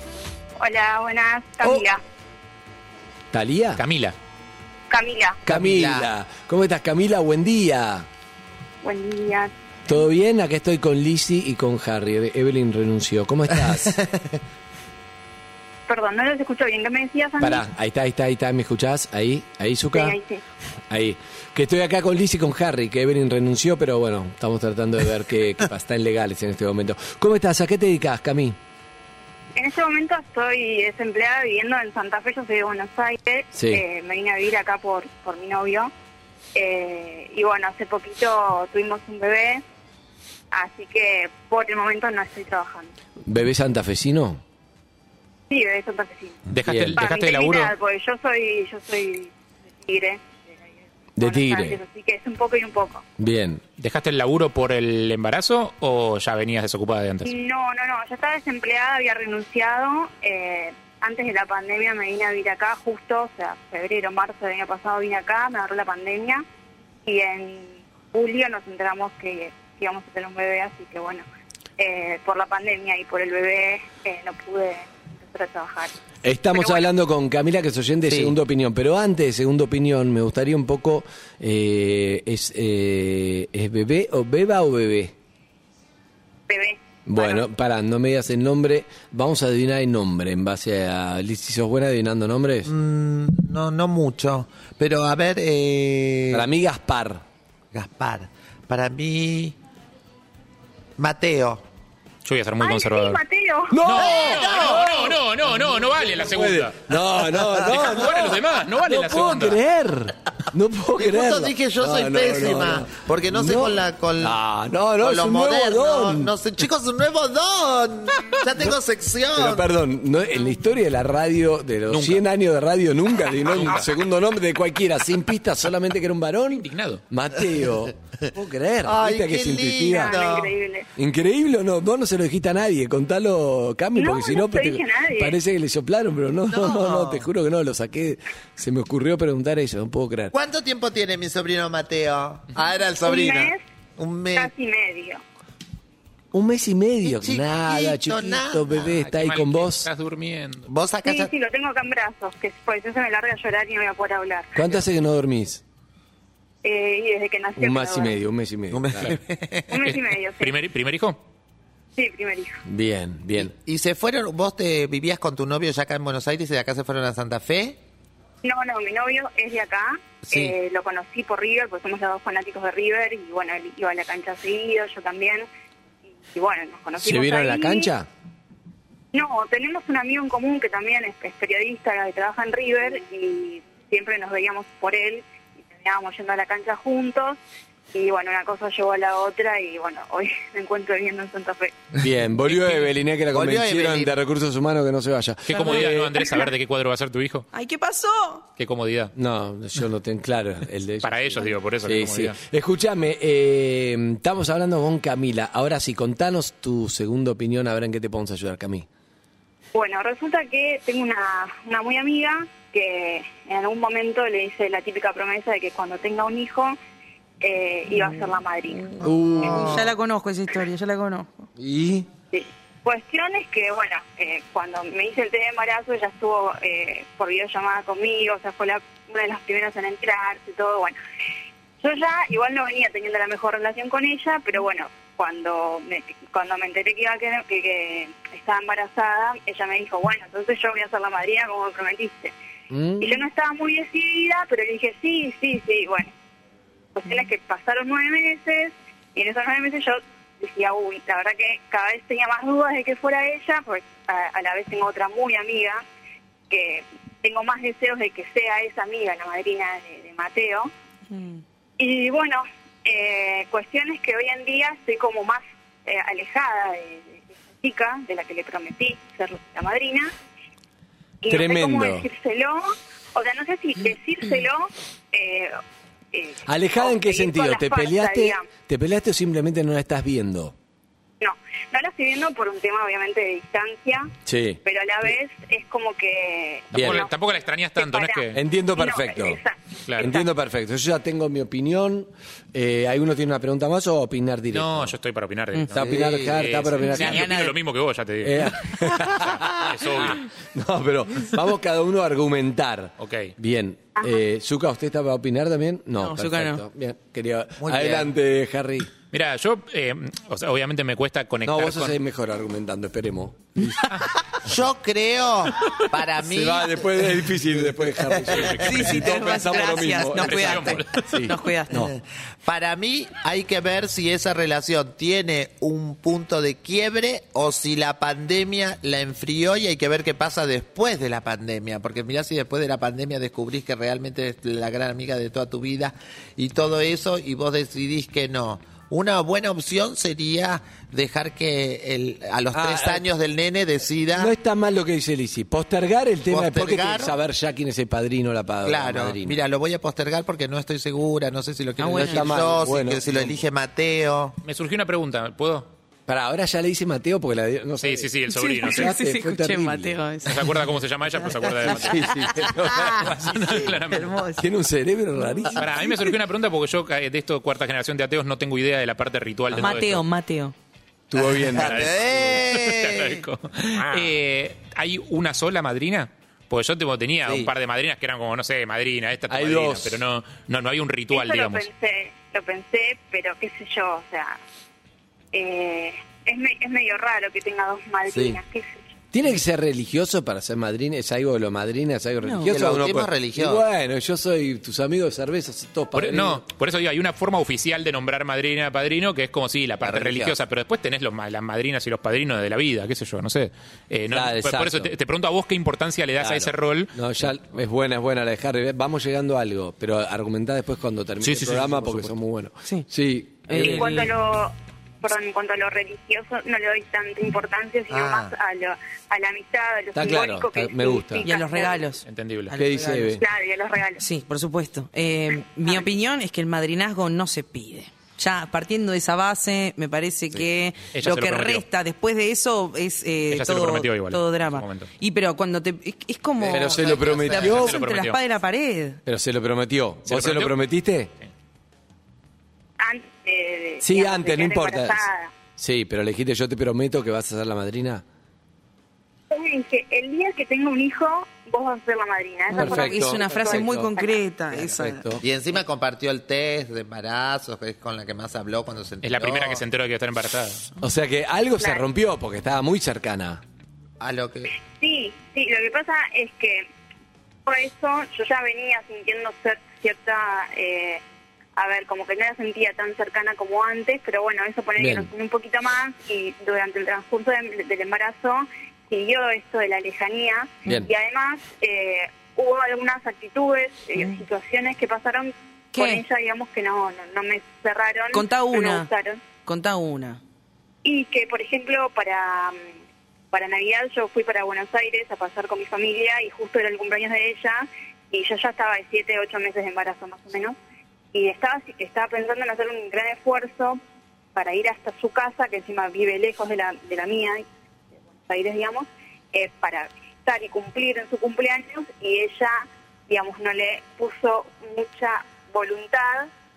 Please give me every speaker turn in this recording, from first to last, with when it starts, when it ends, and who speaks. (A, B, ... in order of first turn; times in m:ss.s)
0:00.6-0:02.0 A
0:01.6-0:01.9 B
0:03.3-0:03.8 B
0:03.8-0:04.2 C
0:04.9-0:05.4 A
0:05.4-0:08.1 B
0:05.5-0:06.1 D
0:08.8-0:09.5 A
0:09.9-0:14.0 B
0:13.5-0:14.4 D
0:15.9-0:17.6 A
0:17.4-0:20.2 B
0:19.9-0:20.4 A
0:20.9-0:28.6 B
0:29.6-0:35.9 A
0:33.5-0:33.8 B
0:36.5-0:39.6 A
0:40.5-0:42.9 A
0:43.3-0:44.4 B
0:45.5-0:46.4 A
0:46.5-0:47.7 C
0:46.6-0:47.0 B
0:46.9-0:49.3 A
0:49.8-0:50.2 A
0:51.2-0:51.8 B
0:51.2-0:53.0 A
0:53.2-0:53.6 B
0:53.8-0:57.3 C
0:57.2-1:06.4 A
1:07.0-1:11.2 A
1:11.8-1:15.9 A
1:16.2-1:25.1 B
1:16.5-1:16.9 A
1:18.1-1:18.4 D
1:26.5-1:27.4 A
1:27.0-1:32.7 B
1:32.6-1:36.4 D
1:36.3-1:37.2 B
1:37.7-1:39.6 D
1:41.0-1:41.6 D
1:42.2-1:43.2 C
1:42.6-1:43.8 A
1:43.7-1:45.2 B
1:43.8-1:49.6 C
1:43.9-1:45.1 D
1:46.1-1:56.3 B
1:51.0-1:54.4 D
1:55.0-1:59.7 D
1:59.3-2:10.2 B
2:01.9-2:02.2 C
2:03.4-2:03.9 C
2:06.6-2:07.0 C
2:08.8-2:10.5 D
2:09.9-2:10.8 A
2:11.0-2:20.3 B
2:14.0-2:15.4 A
2:16.5-2:17.3 D
2:20.3-2:24.5 D
2:23.0-2:23.6 A
2:24.4-2:25.2 A
2:26.3-2:29.9 B
2:27.0-2:29.0 D
2:28.8-2:30.7 C
2:30.6-2:31.3 D
2:31.0-2:34.6 A
2:34.5-2:35.6 B
2:36.6-2:38.2 A
2:37.6-2:39.2 B
2:38.7-2:39.8 D
2:39.7-2:40.5 A
2:39.8-2:41.2 C
2:42.0-2:42.6 A
2:42.6-2:43.5 B
2:43.4-2:47.8 D
2:48.4-2:55.4 A
2:50.2-2:50.6 D
2:56.3-2:57.9 A
2:57.0-2:58.1 B
2:59.1-3:05.2 A
3:05.8-3:07.4 A
3:07.9-3:11.8 A
3:12.0-3:16.1 B
3:13.3-3:14.1 D
3:15.5-3:17.5 C
3:15.5-3:16.4 E
3:17.5-3:18.4 E
3:18.6-3:19.1 C
3:19.1-3:28.9 B
3:21.0-3:22.4 C
3:29.7-3:36.8 A
3:37.4-3:39.0 A
3:39.0-3:41.5 E
3:39.0-3:39.9 B
3:41.6-3:42.1 B
3:42.3-3:51.0 A
3:51.8-4:02.3 A
4:02.7-4:03.2 B
4:03.0-4:06.1 A
4:07.0-4:15.8 A
4:16.5-4:20.7 A
4:21.1-4:21.4 E
4:21.8-4:30.1 A
4:31.2-4:35.6 A
4:31.3-4:32.1 B
4:36.1-4:38.4 A
4:36.4-4:40.5 B
4:41.2-4:44.1 A
4:44.2-4:44.6 B
4:44.6-4:47.1 A
4:46.7-4:48.4 C
4:46.7-4:47.0 B
4:47.8-4:50.3 A
4:48.3-4:49.4 B
4:49.9-4:50.1 C
4:50.0-4:54.9 B
4:54.5-5:00.2 C
4:55.5-4:55.9 E
4:55.7-4:57.3 B
4:55.8-4:56.4 D
4:56.8-4:57.6 E
4:58.2-5:08.9 B
5:03.0-5:03.3 C
5:06.0-5:06.6 E
5:07.6-5:08.1 D
5:09.1-5:12.0 C
5:11.4-5:13.9 B
5:14.4-5:16.8 D
5:16.2-5:21.9 B
5:18.0-5:18.7 D
5:18.4-5:21.1 C
5:18.5-5:21.9 E
5:21.7-5:44.3 D
5:42.5-5:43.0 B
5:44.2-5:49.4 B
5:46.3-5:47.1 D
5:48.6-5:54.4 D
5:51.8-5:52.5 E
5:51.9-5:53.4 B
5:54.4-5:55.7 C
5:56.1-5:58.1 B
5:57.8-5:58.9 C
5:58.3-6:00.6 E
5:58.6-6:00.0 B
6:00.2-6:04.3 C
6:01.6-6:03.4 B
6:01.7-6:02.3 E
6:02.8-6:03.1 E
6:03.9-6:04.4 E
6:04.4-6:05.7 B
6:05.6-6:10.0 C
6:09.6-6:10.5 E
6:11.1-6:12.4 B
6:11.2-6:13.2 D
6:11.5-6:21.7 C
6:13.8-6:14.1 E
6:19.3-6:20.0 B
6:21.1-6:24.4 A
6:25.3-6:28.8 A
6:28.1-6:28.4 D
6:29.1-6:36.4 B
6:32.2-6:32.5 E
6:32.5-6:33.6 D
6:35.9-6:46.9 C
6:39.8-6:40.4 B
6:44.1-6:44.9 B
6:46.2-6:54.1 B
6:51.2-6:52.1 C
6:53.5-6:54.1 E
6:53.5-7:01.9 A
6:57.9-6:58.3 D
6:59.9-7:01.3 B
7:01.2-7:03.2 E
7:02.0-7:02.6 C
7:02.6-7:03.2 B
7:03.2-7:04.0 A
7:04.0-7:19.0 E
7:10.9-7:11.6 C
7:13.3-7:14.9 C
7:16.4-7:17.7 D
7:16.5-7:17.8 B
7:17.4-7:18.2 C
7:19.0-7:21.1 B
7:20.1-7:20.6 C
7:22.8-7:25.3 A
7:23.8-7:25.0 B
7:25.6-7:28.0 B
7:29.3-7:34.2 A
7:32.5-7:35.1 E
7:32.5-7:33.9 B
7:34.5-7:35.2 B
7:35.2-7:39.6 D
7:39.0-7:40.7 C
7:40.8-7:43.4 B
7:44.0-7:44.5 D
7:44.8-7:46.7 A
7:47.4-7:51.0 A
7:51.6-8:09.2 A
7:54.8-7:55.1 B
8:00.6-8:00.9 B
8:05.7-8:06.0 E
8:08.1-8:08.9 E
8:09.4-8:10.2 E
8:10.8-8:12.7 A
8:13.3-8:20.6 A
8:21.1-8:23.8 A
8:24.3-8:27.4 A
8:28.3-8:36.3 A